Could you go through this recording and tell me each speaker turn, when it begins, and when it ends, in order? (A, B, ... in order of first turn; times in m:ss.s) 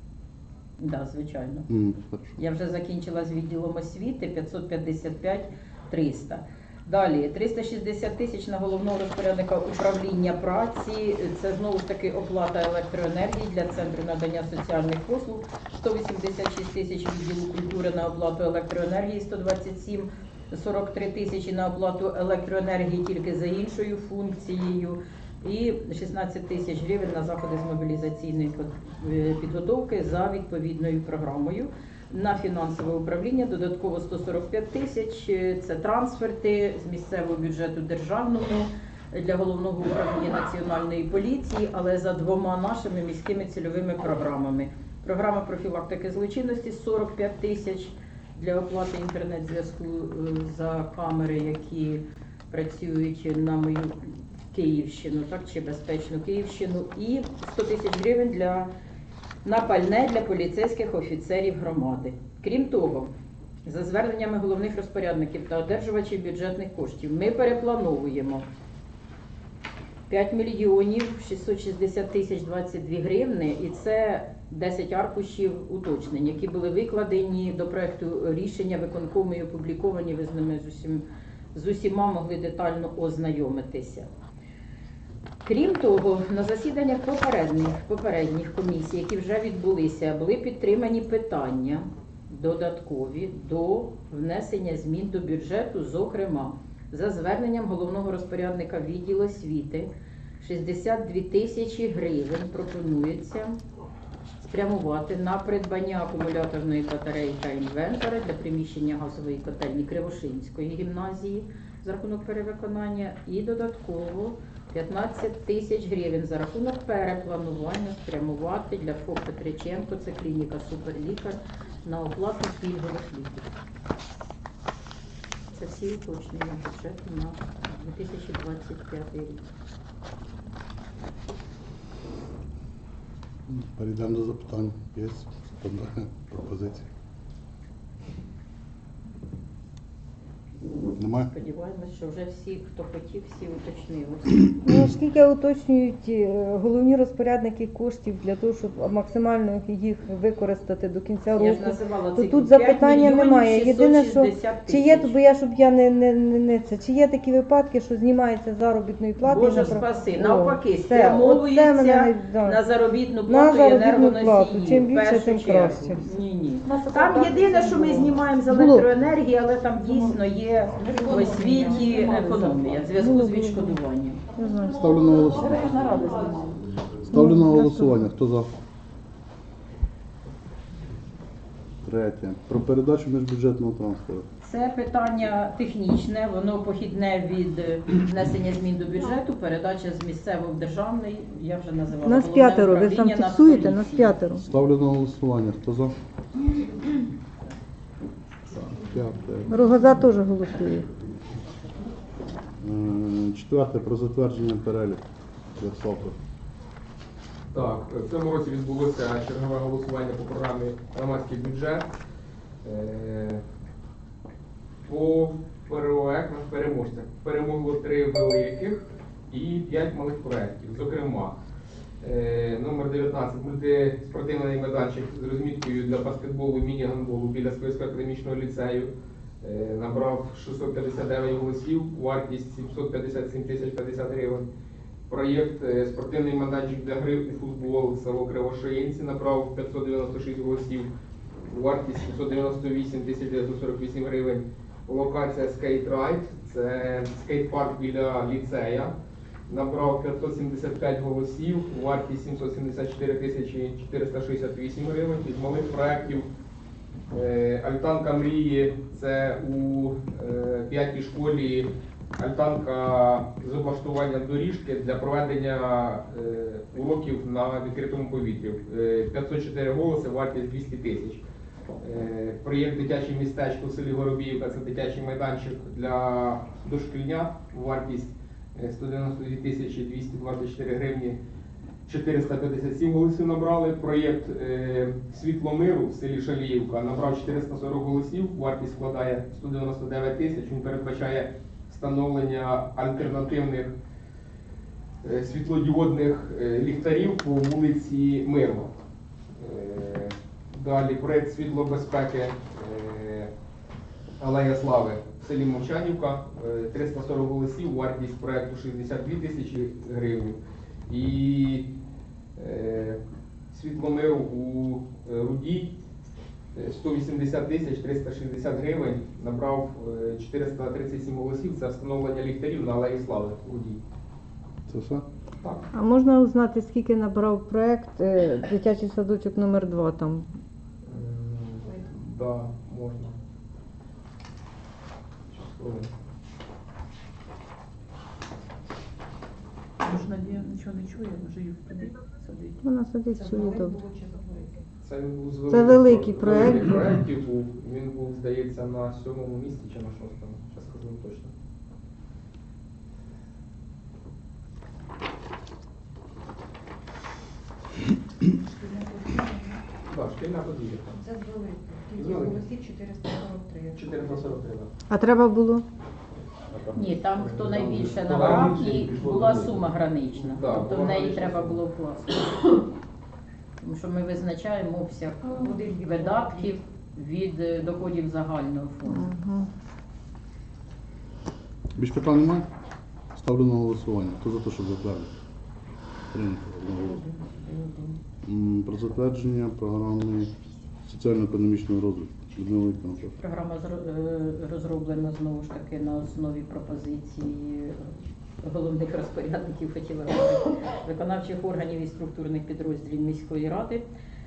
0:00.8-0:01.7 A
0:01.7-0:02.4 B
0:02.4-0:54.0 A
0:54.5-0:58.7 A
0:59.4-1:03.1 A
1:03.6-1:08.4 A
1:10.1-1:21.0 A
1:21.5-1:24.1 A
1:25.4-1:39.9 A
1:40.4-1:43.6 A
1:44.4-2:03.5 A
2:05.5-2:09.4 A
2:13.5-2:16.9 B
2:20.9-2:24.5 A
2:21.0-2:21.3 B
2:24.6-2:42.6 C
2:31.4-2:35.2 A
2:39.2-2:54.2 A
2:43.3-2:46.1 C
2:46.6-2:48.2 D
2:48.5-2:48.9 C
2:50.8-2:52.9 D
2:53.0-2:53.8 C
2:54.4-2:54.9 C
2:54.7-2:55.8 B
2:55.1-2:56.6 D
2:57.1-2:58.5 B
2:57.1-2:58.0 C
3:01.8-3:04.2 B
3:04.4-3:14.2 A
3:12.0-3:14.4 C
3:14.4-3:15.9 B
3:18.5-3:19.6 B
3:19.5-3:20.9 C
3:22.6-3:25.0 B
3:25.6-3:26.2 B
3:27.5-3:31.9 E
3:32.6-3:33.4 E
3:34.9-3:41.3 E
3:42.0-3:48.9 E
3:49.4-3:54.5 E
3:55.1-4:00.9 E
4:01.4-4:08.9 E
4:09.5-4:16.3 E
4:17.1-4:31.2 E
4:31.8-4:41.2 E
4:41.9-4:53.7 E
4:55.0-4:58.7 E
4:59.4-5:03.3 E
5:04.2-5:11.7 E
5:12.4-5:13.0 E
5:13.5-5:15.8 E
5:16.5-5:23.8 E
5:24.7-5:25.0 B
5:25.7-5:30.3 C
5:30.8-5:33.1 E
5:35.3-5:35.9 E
5:39.8-5:42.6 D
5:42.6-5:43.8 C
5:43.2-5:44.5 F
5:44.8-5:51.3 E
5:45.5-5:46.9 C
5:58.5-5:59.6 F
5:59.9-6:01.0 E
6:01.0-6:03.8 F
6:02.0-6:02.5 E
6:03.7-6:04.7 E
6:04.9-6:05.6 C
6:06.5-6:11.6 E
6:06.8-6:12.5 A
6:13.6-6:19.1 A
6:15.5-6:16.0 F
6:18.9-6:19.5 C
6:21.8-6:22.5 B
6:23.1-6:25.1 B
6:26.1-6:27.0 B
6:26.8-6:28.0 A
6:28.2-6:30.3 B
6:30.9-6:33.2 B
6:33.2-6:37.9 A
6:38.4-6:43.8 A